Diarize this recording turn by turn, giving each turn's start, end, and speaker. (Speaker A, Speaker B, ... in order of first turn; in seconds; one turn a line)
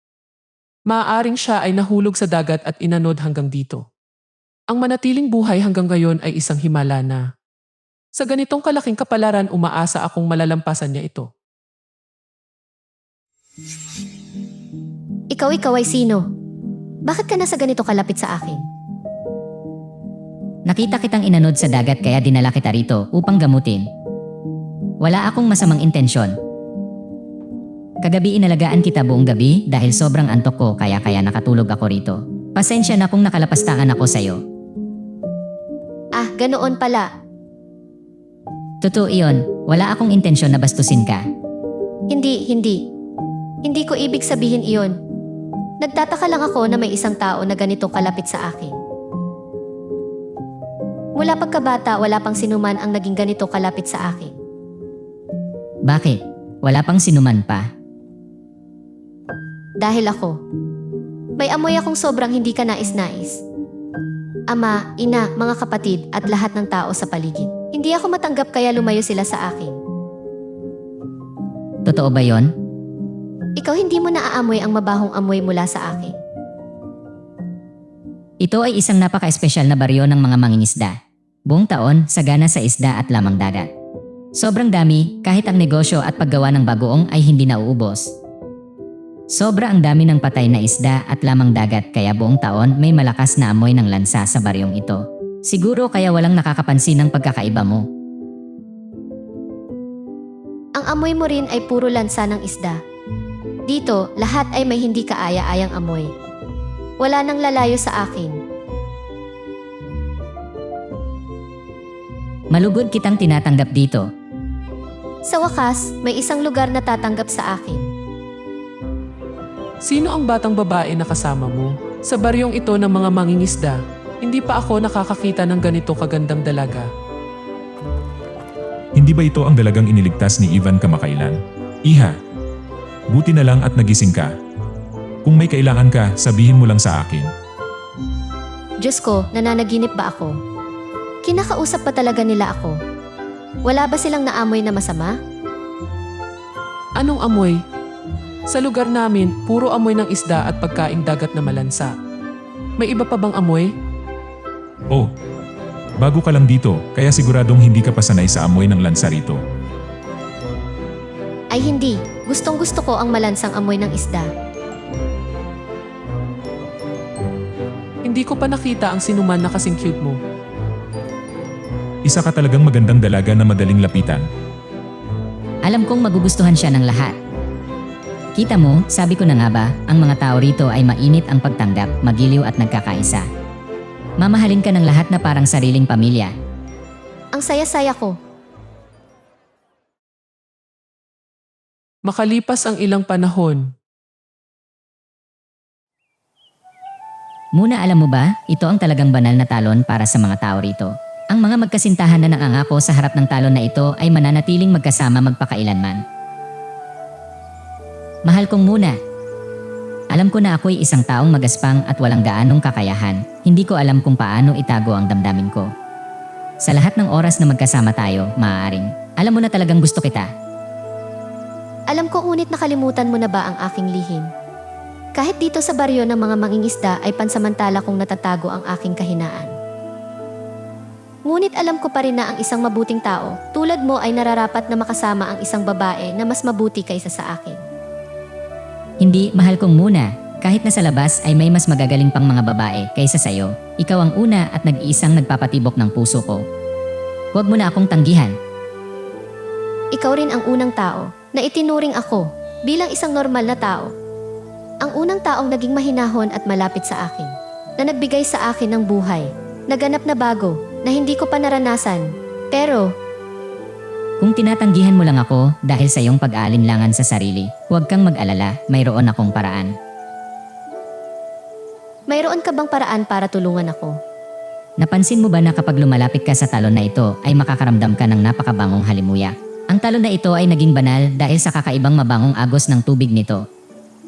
Speaker A: 0.9-3.8
Speaker A: 4.7-7.3
Speaker A: 8.2-11.3
Speaker B: 15.3-16.2
Speaker B: 17.1-18.6
Speaker C: 20.7-23.9
Speaker C: 25.0-26.4
Speaker C: 28.1-34.4
Speaker B: 36.2-37.1
Speaker C: 38.8-41.2
Speaker B: 42.1-42.8
Speaker B: 43.6-45.0
Speaker B: 45.8-48.8
Speaker B: 51.2-54.4
Speaker C: 55.9-57.7
Speaker B: 59.8-60.4
Speaker B: 61.4-63.4
Speaker B: 64.5-69.8
Speaker C: 71.9-72.5
Speaker B: 73.6-76.2
Speaker C: 78.4-81.0
Speaker C: 81.5-83.7
Speaker C: 84.4-88.1
Speaker C: 89.3-97.9
Speaker B: 100.8-102.8
Speaker B: 103.7-106.1
Speaker B: 107.0-108.4
Speaker C: 112.5-114.0
Speaker B: 115.3-117.9
Speaker A: 120.0-126.9
Speaker D: 129.0-132.2
Speaker D: 133.1-134.3
Speaker D: 135.2-137.3
Speaker B: 138.8-140.4
Speaker B: 141.2-142.8
Speaker B: 143.7-145.2
Speaker A: 147.0-147.6
Speaker A: 148.5-151.9
Speaker A: 152.8-153.7
Speaker D: 156.0-159.4
Speaker B: 161.5-164.3
Speaker A: 168.1-170.2
Speaker D: 172.1-174.2
Speaker C: 175.7-177.2
Speaker C: 178.4-183.2
Speaker C: 184.2-186.3
Speaker B: 187.3-188.2
Speaker A: 192.1-193.7
Speaker C: 197.6-206.0
Speaker C: 208.3-209.0
Speaker C: 210.1-215.7
Speaker C: 216.7-220.3
Speaker B: 221.9-224.3
Speaker B: 225.2-229.5
Speaker B: 231.3-237.6
Speaker C: 239.0-246.4
Speaker C: 247.3-248.4
Speaker B: 249.9-253.9
Speaker B: 254.8-262.9
Speaker C: 264.2-269.7
Speaker B: 272.1-274.0
Speaker C: 274.8-283.4